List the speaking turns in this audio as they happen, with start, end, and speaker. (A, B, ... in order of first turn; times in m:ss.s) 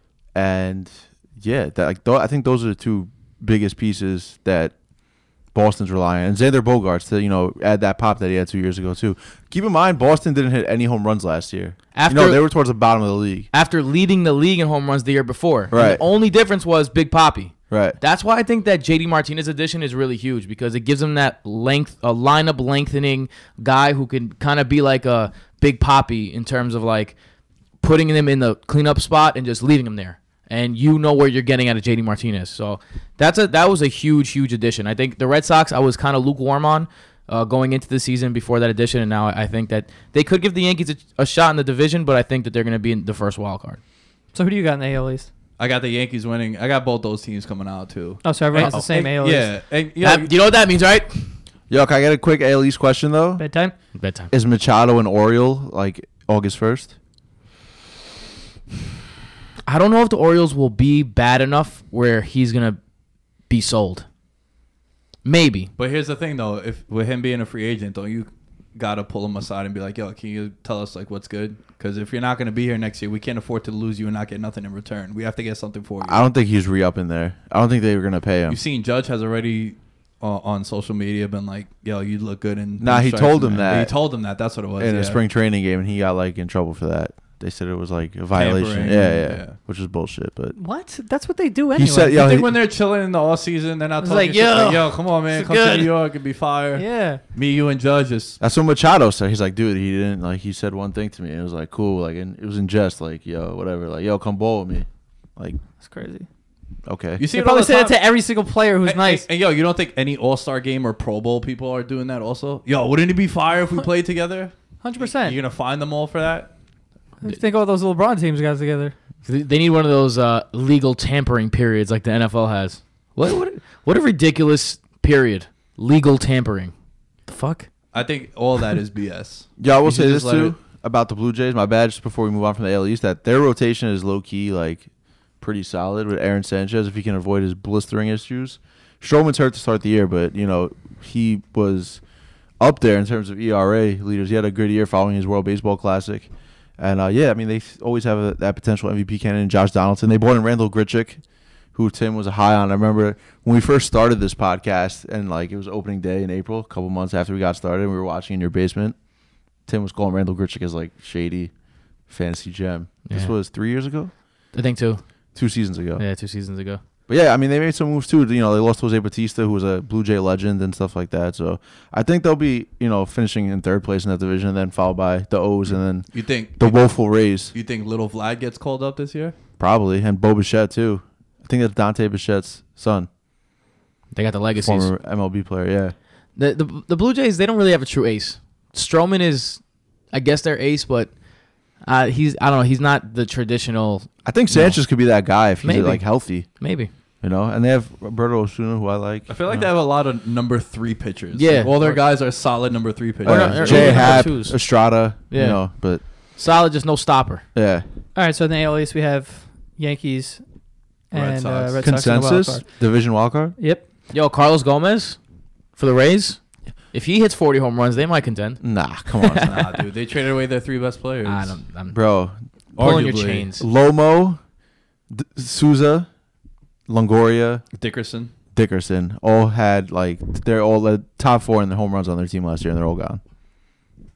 0:00.3-0:13.5 A
0:11.9-0:12.6 B
0:13.5-0:27.2 B
0:15.7-0:16.0 A
0:17.7-0:18.0 A
0:27.8-0:43.8 B
0:44.3-0:45.3 C
0:45.6-0:50.6 D
0:48.2-0:49.6 C
0:50.0-0:51.4 B
0:51.7-0:57.0 A
0:53.4-0:53.8 C
0:53.9-0:54.3 B
0:59.7-1:02.8 B
1:03.4-1:04.1 B
1:05.2-1:05.7 B
1:05.8-1:16.3 D
1:16.0-1:18.6 A
1:18.5-1:25.2 D
1:22.8-1:24.2 A
1:24.8-1:30.6 A
1:28.3-1:29.6 D
1:30.6-1:32.2 C
1:31.7-1:32.6 A
1:32.1-1:38.4 D
1:34.0-1:36.1 C
1:36.7-1:37.2 C
1:38.4-1:45.6 A
1:45.8-1:46.3 C
1:46.8-1:47.2 A
1:47.2-1:48.2 D
1:47.3-1:49.3 C
1:48.8-1:56.6 D
1:54.8-1:55.4 C
1:57.2-1:59.0 C
1:59.2-2:07.7 B
2:07.9-2:10.6 D
2:09.6-2:44.4 A
2:43.0-2:43.4 B
2:44.5-2:46.8 B
2:45.4-2:46.1 A
2:47.1-2:57.6 A
2:55.8-2:59.4 D
2:59.6-3:03.1 A
3:04.1-3:04.9 B
3:04.6-3:06.0 A
3:06.4-3:16.9 B
3:14.2-3:19.7 A
3:19.3-3:24.3 D
3:21.3-3:22.1 B
3:23.2-3:26.0 A
3:23.2-3:27.5 B
3:27.5-3:27.9 A
3:28.1-3:33.9 C
3:31.1-3:31.8 D
3:31.8-3:33.6 A
3:34.1-3:39.2 B
3:38.6-3:39.6 A
3:39.5-3:41.7 D
3:41.2-3:43.7 B
3:41.9-3:42.7 A
3:42.8-3:43.5 D
3:43.6-3:44.6 A
3:45.1-3:46.1 A
3:46.9-3:47.7 A
3:47.7-3:48.3 D
3:48.5-3:53.2 A